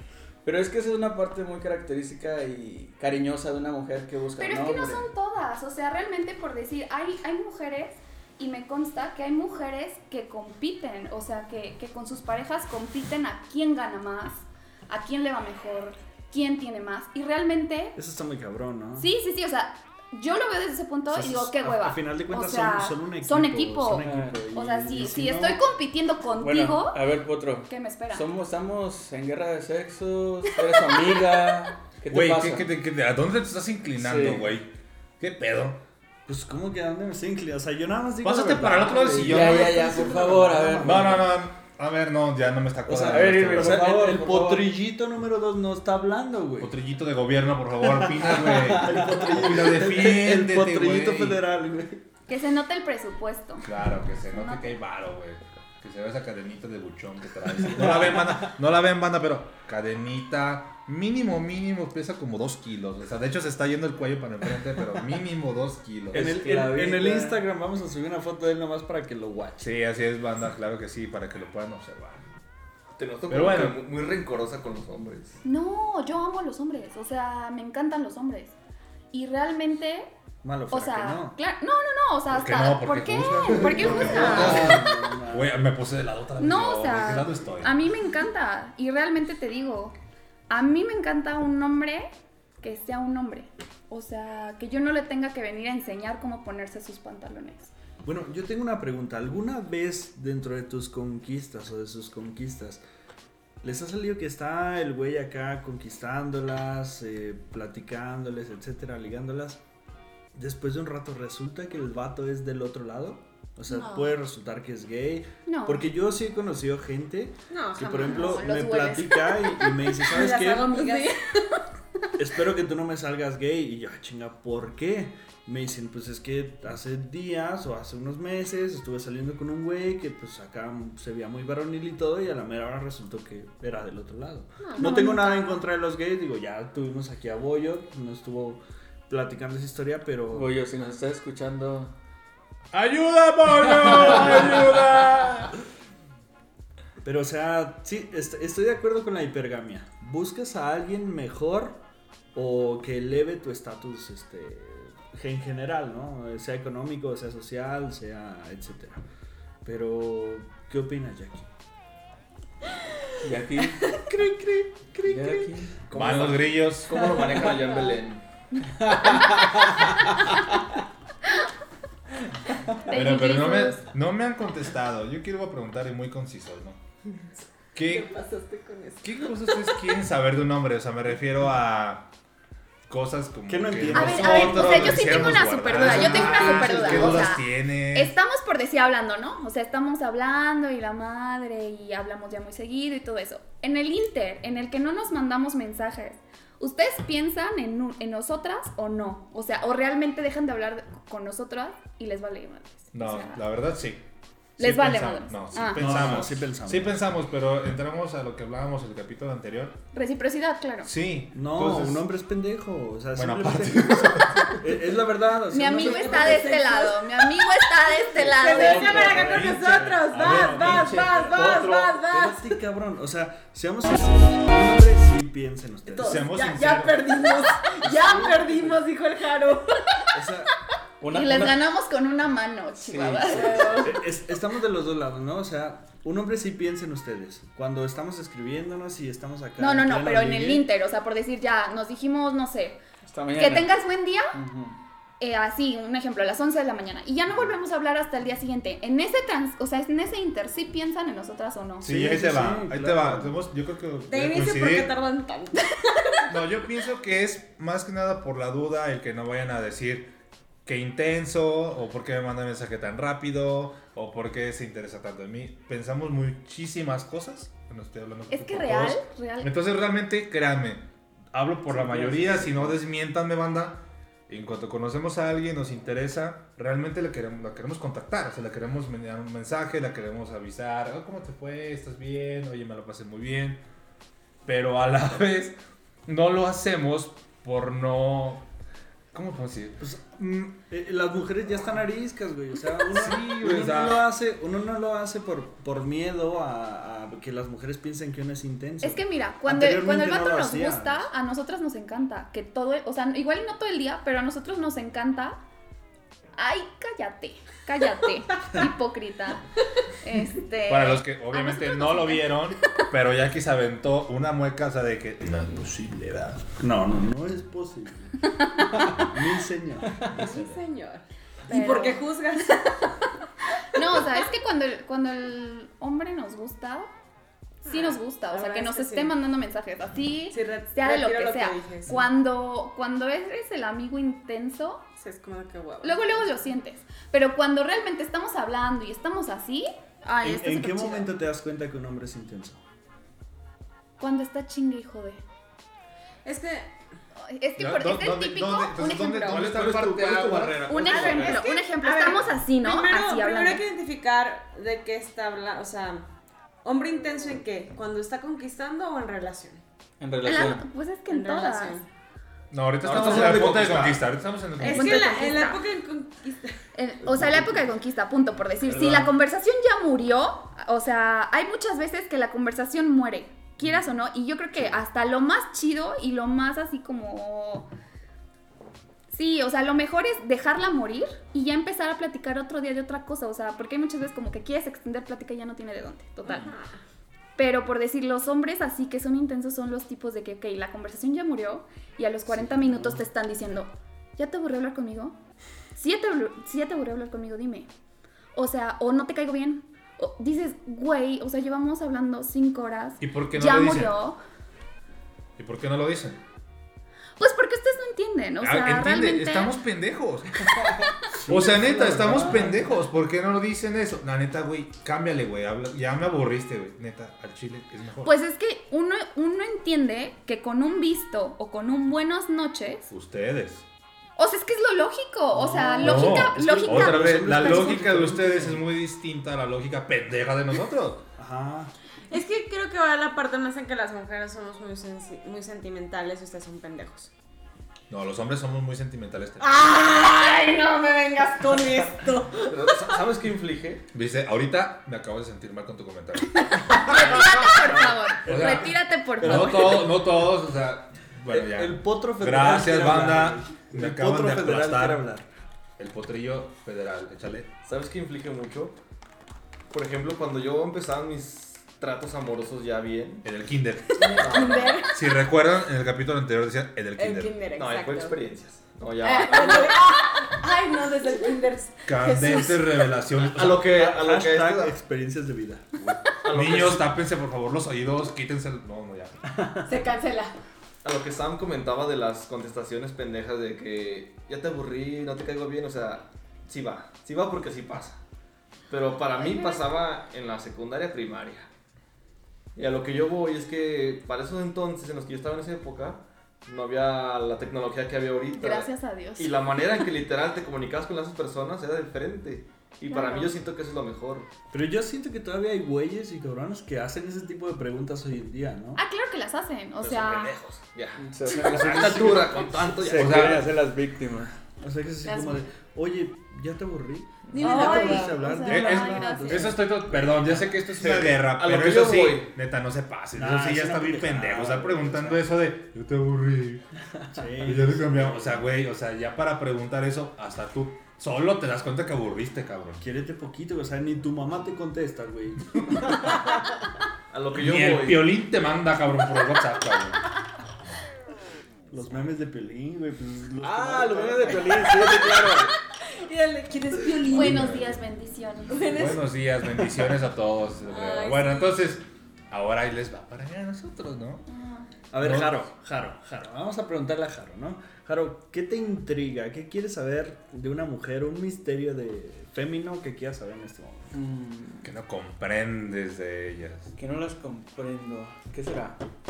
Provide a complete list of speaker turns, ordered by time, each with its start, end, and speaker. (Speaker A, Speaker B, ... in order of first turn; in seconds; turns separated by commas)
Speaker A: 0.4-5.1, Speaker B: 4.4-18.0, Speaker C: 17.9-19.1, Speaker B: 19.0-27.0, Speaker C: 21.1-25.6, Speaker A: 24.0-24.4, Speaker A: 26.4-32.7, Speaker B: 27.7-28.3, Speaker D: 32.1-35.8, Speaker A: 34.0-34.5, Speaker C: 36.2-41.3, Speaker D: 38.2-40.0, Speaker A: 39.1-41.2, Speaker D: 40.8-43.9, Speaker C: 42.9-46.7, Speaker A: 42.9-44.7, Speaker D: 46.6-51.4, Speaker C: 48.0-52.0, Speaker B: 52.3-53.7, Speaker D: 53.6-66.4, Speaker B: 54.3-54.7, Speaker C: 57.8-58.2, Speaker A: 66.1-67.4, Speaker C: 66.1-69.7, Speaker D: 69.6-72.2, Speaker E: 73.0-75.4, Speaker D: 73.3-73.8, Speaker B: 75.4-78.5, Speaker B: 79.1-80.1, Speaker C: 80.4-81.4, Speaker B: 80.7-84.6, Speaker D: 82.3-87.7, Speaker C: 83.5-85.6, Speaker B: 86.4-90.0, Speaker B: 90.5-92.1, Speaker B: 92.6-97.7, Speaker C: 98.0-102.8, Speaker C: 103.6-109.6, Speaker C: 110.3-120.8, Speaker F: 113.7-114.2, Speaker B: 115.5-115.8, Speaker F: 117.5-118.9, Speaker B: 117.9-120.0, Speaker F: 120.0-121.4, Speaker B: 120.8-121.2, Speaker C: 122.2-140.5, Speaker F: 134.6-135.0, Speaker B: 134.7-135.6, Speaker A: 140.3-141.9, Speaker D: 142.7-145.5, Speaker C: 143.8-144.6, Speaker C: 147.0-151.8, Speaker C: 152.3-159.0, Speaker C: 159.6-161.4, Speaker A: 163.2-164.0, Speaker F: 163.8-164.1, Speaker C: 164.1-166.3, Speaker A: 164.9-165.7, Speaker D: 165.9-167.1, Speaker E: 165.9-168.2, Speaker A: 168.7-169.9, Speaker B: 172.8-173.8, Speaker D: 172.9-176.8, Speaker D: 177.7-178.1, Speaker F: 177.8-179.8, Speaker D: 179.0-182.1, Speaker D: 182.9-188.1, Speaker C: 183.5-186.7, Speaker B: 183.9-203.4, Speaker D: 202.9-204.0, Speaker B: 204.6-206.2, Speaker D: 204.6-209.8, Speaker C: 205.7-207.0, Speaker B: 209.9-210.9, Speaker D: 210.8-212.1, Speaker C: 211.3-216.6, Speaker D: 213.1-214.6, Speaker B: 215.5-219.1, Speaker F: 215.6-217.3, Speaker F: 218.2-222.6, Speaker C: 218.4-226.3, Speaker A: 218.4-219.2, Speaker D: 219.1-221.6, Speaker F: 225.9-230.1, Speaker D: 226.0-227.2, Speaker C: 227.8-228.8, Speaker C: 230.1-230.5, Speaker A: 231.0-231.6, Speaker B: 231.1-233.7, Speaker A: 232.8-233.5, Speaker F: 233.2-234.0, Speaker C: 233.8-240.7, Speaker B: 239.6-242.8, Speaker A: 243.0-243.7, Speaker B: 243.3-244.4, Speaker A: 244.3-244.8, Speaker B: 245.2-251.9, Speaker C: 251.8-253.3, Speaker D: 251.8-254.9, Speaker F: 254.1-256.3, Speaker D: 256.3-260.1, Speaker D: 260.6-283.6, Speaker B: 268.3-269.5, Speaker C: 271.9-272.2, Speaker D: 284.4-288.4, Speaker D: 289.1-289.8, Speaker C: 289.8-301.1, Speaker D: 292.9-294.1, Speaker B: 298.8-305.4, Speaker B: 306.4-309.4, Speaker B: 310.0-312.5, Speaker D: 310.7-316.4, Speaker C: 316.4-320.6, Speaker B: 318.6-318.9, Speaker F: 320.0-322.9, Speaker B: 321.5-322.1, Speaker B: 323.7-326.9, Speaker F: 327.6-329.1, Speaker B: 327.6-334.9, Speaker F: 330.3-332.1, Speaker F: 335.0-336.3, Speaker B: 335.8-341.1, Speaker C: 340.2-342.6, Speaker B: 344.0-345.2, Speaker F: 346.2-346.7, Speaker B: 347.2-349.5, Speaker D: 347.6-350.8, Speaker E: 349.3-351.5, Speaker B: 350.6-353.6, Speaker F: 350.8-356.0, Speaker F: 356.6-359.6, Speaker A: 360.0-360.6, Speaker B: 360.2-361.8, Speaker F: 361.1-361.9, Speaker D: 362.5-365.1, Speaker E: 362.8-364.0, Speaker F: 364.6-366.6, Speaker B: 364.6-365.6, Speaker B: 366.7-377.7, Speaker D: 368.8-369.1, Speaker B: 379.1-386.5, Speaker F: 386.2-386.8, Speaker B: 387.4-395.2, Speaker B: 395.7-397.7, Speaker B: 398.3-404.2, Speaker D: 403.0-403.9, Speaker D: 405.4-406.2, Speaker B: 407.2-409.5, Speaker D: 408.4-410.7, Speaker C: 411.1-412.6, Speaker D: 411.2-418.1, Speaker B: 418.0-422.9, Speaker D: 422.9-423.6, Speaker B: 424.2-427.8, Speaker C: 425.3-428.6, Speaker D: 425.8-431.0, Speaker C: 431.2-431.7, Speaker F: 432.1-437.1, Speaker D: 437.9-439.5, Speaker F: 439.4-443.0, Speaker E: 442.5-443.9, Speaker D: 443.9-447.4, Speaker B: 446.7-449.9, Speaker C: 447.6-448.5, Speaker D: 448.2-455.1, Speaker C: 449.2-449.7, Speaker C: 451.3-455.3, Speaker D: 455.8-457.5, Speaker E: 457.6-458.8, Speaker E: 459.7-463.2, Speaker D: 463.2-464.3, Speaker F: 463.9-465.0, Speaker E: 464.2-464.8, Speaker D: 464.9-467.3, Speaker F: 467.0-468.1, Speaker E: 467.5-469.8, Speaker F: 469.0-472.8, Speaker D: 471.9-473.7, Speaker E: 473.2-474.8, Speaker C: 473.6-475.7, Speaker E: 476.2-476.9, Speaker D: 476.3-479.1, Speaker F: 479.6-480.3, Speaker E: 480.8-488.0, Speaker E: 488.7-491.5, Speaker E: 492.6-504.3, Speaker B: 498.4-499.3, Speaker B: 502.9-503.3, Speaker C: 504.5-508.8, Speaker B: 508.8-510.3, Speaker E: 509.8-513.4, Speaker A: 511.0-514.3, Speaker D: 511.5-512.2, Speaker D: 512.9-513.4, Speaker C: 514.6-520.1, Speaker F: 515.0-515.4, Speaker F: 517.3-518.4, Speaker B: 517.4-519.6, Speaker D: 518.4-526.6, Speaker E: 520.7-522.3, Speaker C: 523.1-525.2, Speaker C: 527.1-528.4, Speaker D: 527.4-532.8, Speaker C: 532.8-536.2, Speaker E: 537.1-538.1, Speaker D: 537.4-540.0, Speaker C: 541.7-545.3, Speaker A: 543.4-545.5, Speaker F: 544.8-547.6, Speaker B: 547.0-548.6, Speaker D: 547.1-547.7, Speaker F: 548.5-549.0, Speaker D: 548.7-554.2, Speaker F: 550.7-551.6, Speaker B: 554.3-554.7, Speaker C: 554.9-563.9, Speaker D: 555.0-555.4, Speaker A: 563.9-564.7, Speaker D: 564.6-566.7, Speaker A: 566.8-568.8